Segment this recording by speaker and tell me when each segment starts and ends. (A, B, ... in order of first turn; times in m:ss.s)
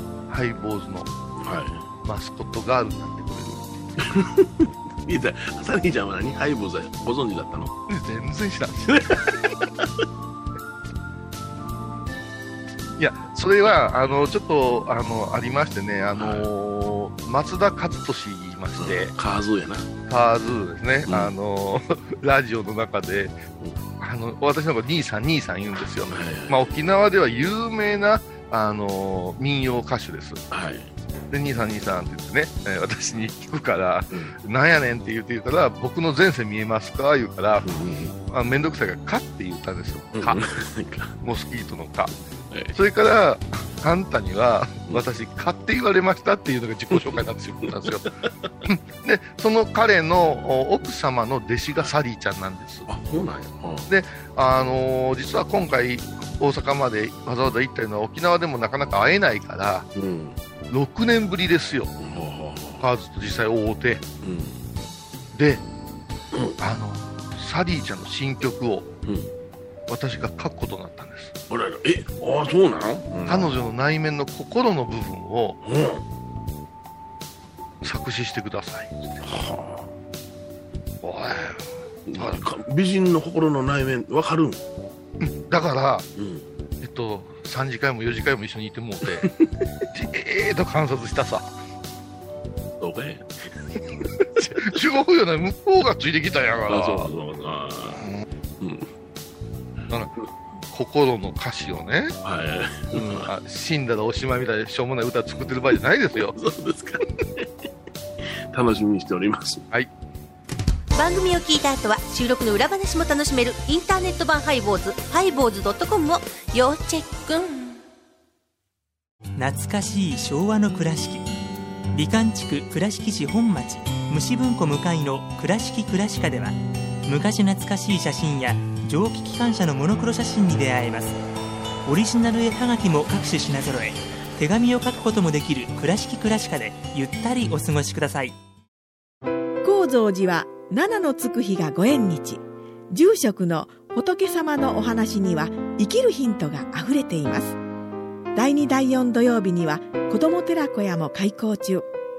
0:00.3-0:01.1 A
0:01.4-0:01.8 B
0:02.0-0:04.2 A
0:04.0-0:07.7 B
0:07.9-0:09.3 A
0:08.9-0:09.2 B
0:13.0-0:19.1 A
0:16.2-0:16.5 B
0:18.8-0:19.9 B
0:20.1-0:23.4 A
0:21.1-0:21.3 B
0:24.0-0:30.4 A
0:26.1-0:26.7 B
0:30.5-0:30.9 B
0:31.3-0:37.7 A
0:34.1-0:34.4 B
0:37.6-0:38.2 B
0:38.3-0:40.4 A
0:40.1-0:41.1 B
0:41.2-0:42.1 A
0:42.5-0:42.8 B
0:42.7-0:48.1 A
0:46.9-0:48.5 B
0:48.6-0:52.9 A
0:52.9-0:53.9 B
0:53.9-0:59.9 A
1:00.0-1:00.4 B
1:00.7-1:01.9 A
1:02.0-1:02.9 B
1:02.8-1:04.0 A
1:04.2-1:04.7 B
1:05.3-1:05.6 A
1:06.3-1:06.6 B
1:06.6-1:08.9 A
1:09.0-1:09.3 B
1:09.9-1:11.3 A
1:11.5-1:13.6 B
1:13.3-1:15.6 A
1:15.6-1:16.0 B
1:17.8-1:19.2 A
1:19.2-1:19.9 B
1:21.0-1:22.4 A
1:22.1-1:24.6 B
1:25.2-1:26.1 A
1:26.2-1:26.5 B
1:26.8-1:29.3 A
1:29.0-1:29.5 B
1:29.9-1:31.5 A
1:32.8-1:34.0 B
1:34.5-1:37.1 A
1:36.7-1:38.1 B
1:38.6-1:38.9 B
1:40.7-1:42.2 A
1:42.2-1:43.3 B
1:42.9-1:46.4 A
1:46.1-1:47.7 B
1:48.2-1:49.6 B
1:51.0-1:57.8 C
1:59.4-2:01.2 D
2:01.9-2:11.2 D
2:11.8-2:18.4 D
2:19.6-2:27.6 E
2:28.4-2:31.9 E